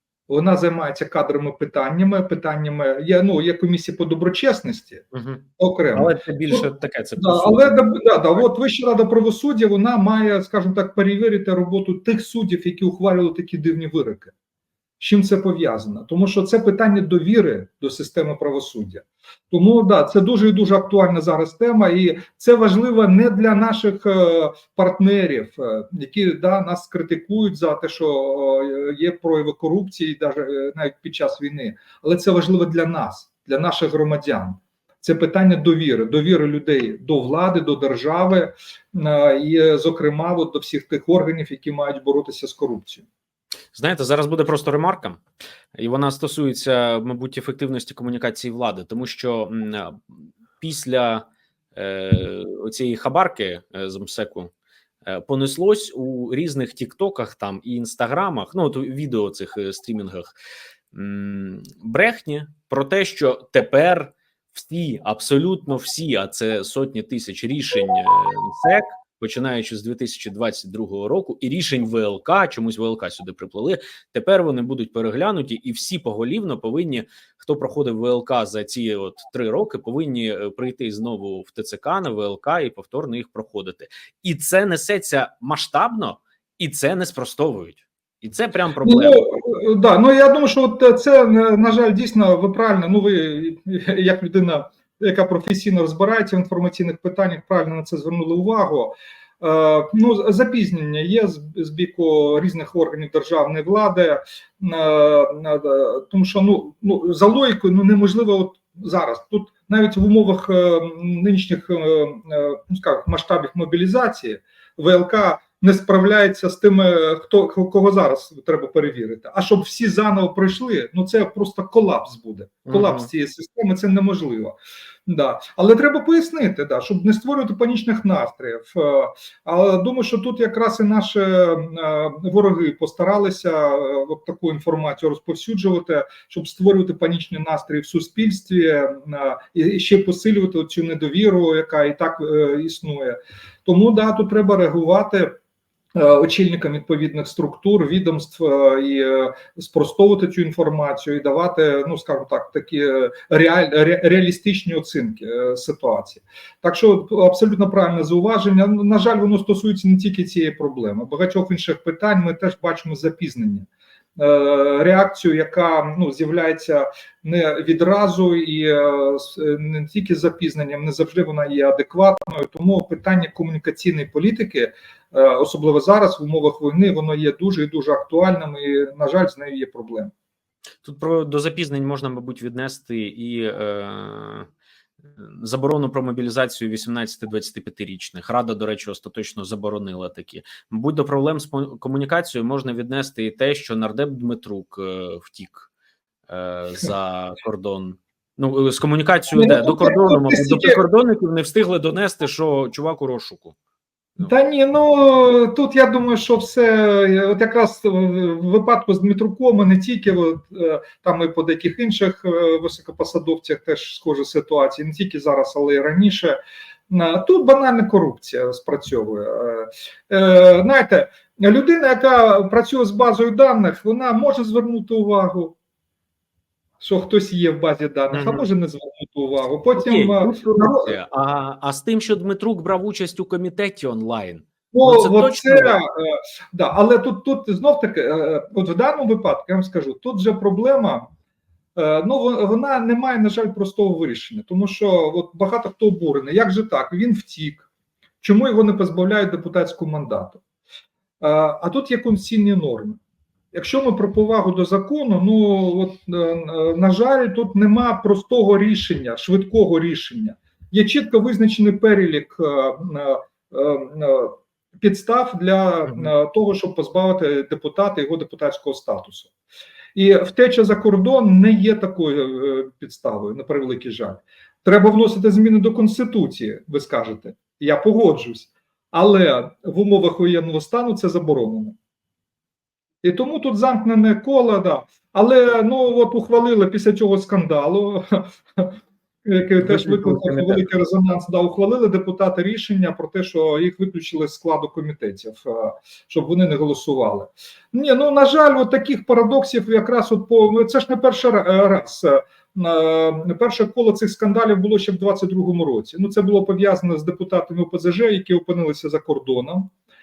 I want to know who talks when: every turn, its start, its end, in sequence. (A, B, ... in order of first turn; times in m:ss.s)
0:00.3-0:05.1 A
0:05.1-0:08.5 B
0:05.6-0:14.3 A
0:15.0-0:43.1 A
0:43.7-0:45.2 B
0:45.7-0:54.5 B
0:55.0-1:00.3 B
1:00.9-1:29.3 B
1:28.8-2:04.6 A
2:02.7-2:03.1 B
2:05.1-2:25.4 A
2:26.0-3:00.1 A
3:00.8-3:04.5 B
3:05.0-3:15.7 B
3:16.3-3:23.6 B
3:19.3-3:20.8 A
3:24.2-3:36.4 A
3:36.9-3:45.6 A
3:46.8-3:51.0 A
3:48.1-3:48.5 B
3:49.8-3:55.8 B
3:54.7-4:01.1 A
4:01.8-4:07.7 A
4:08.2-4:10.4 A
4:11.2-4:13.0 A
4:13.5-4:29.3 A
4:30.0-4:41.8 A
4:43.0-5:09.7 A
4:49.6-4:50.7 B